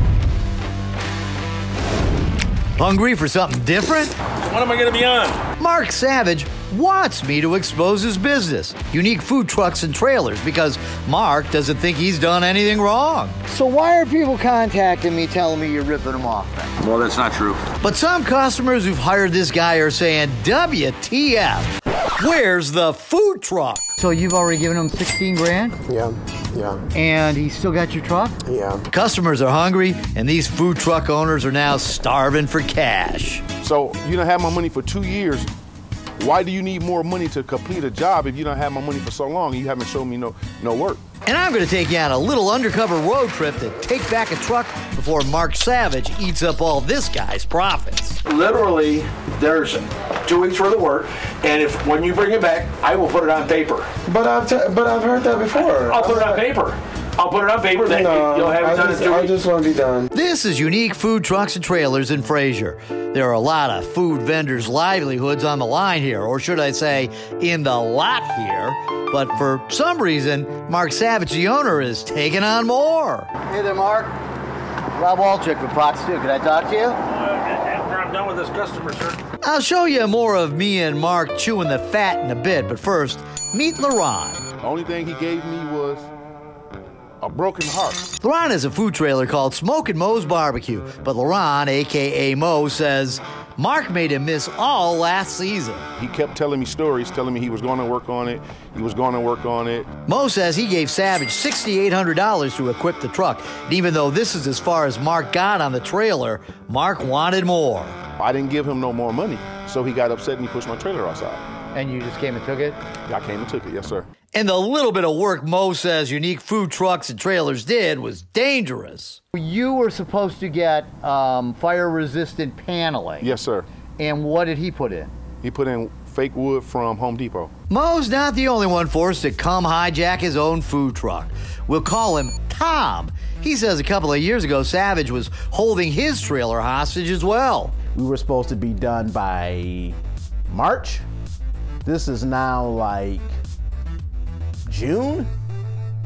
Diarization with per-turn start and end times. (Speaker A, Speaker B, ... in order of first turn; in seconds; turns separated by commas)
Speaker A: 2.8-4.1, Speaker B: 4.4-5.4, Speaker A: 5.6-16.7, Speaker B: 16.8-17.7, Speaker A: 17.8-25.8, Speaker C: 25.9-26.8, Speaker A: 26.9-28.4, Speaker C: 28.4-28.9, Speaker A: 28.9-33.4, Speaker D: 33.6-35.5, Speaker D: 36.2-41.0, Speaker A: 41.2-48.2, Speaker B: 48.2-53.9, Speaker C: 54.0-56.4, Speaker B: 55.6-59.3, Speaker C: 57.8-60.1, Speaker A: 60.1-74.1, Speaker A: 74.9-77.0, Speaker B: 77.0-79.2, Speaker A: 79.4-84.4, Speaker D: 84.6-86.1, Speaker D: 87.2-88.1, Speaker A: 88.2-95.8, Speaker D: 96.0-99.9, Speaker A: 100.1-108.0, Speaker D: 108.2-111.4, Speaker A: 111.7-112.8, Speaker D: 113.0-114.1, Speaker A: 114.3-123.3, Speaker D: 123.2-123.7, Speaker A: 124.0-125.1, Speaker D: 125.4-127.5, Speaker A: 127.7-137.8, Speaker E: 137.9-140.0, Speaker E: 140.5-141.0, Speaker E: 141.8-143.3, Speaker E: 144.7-145.3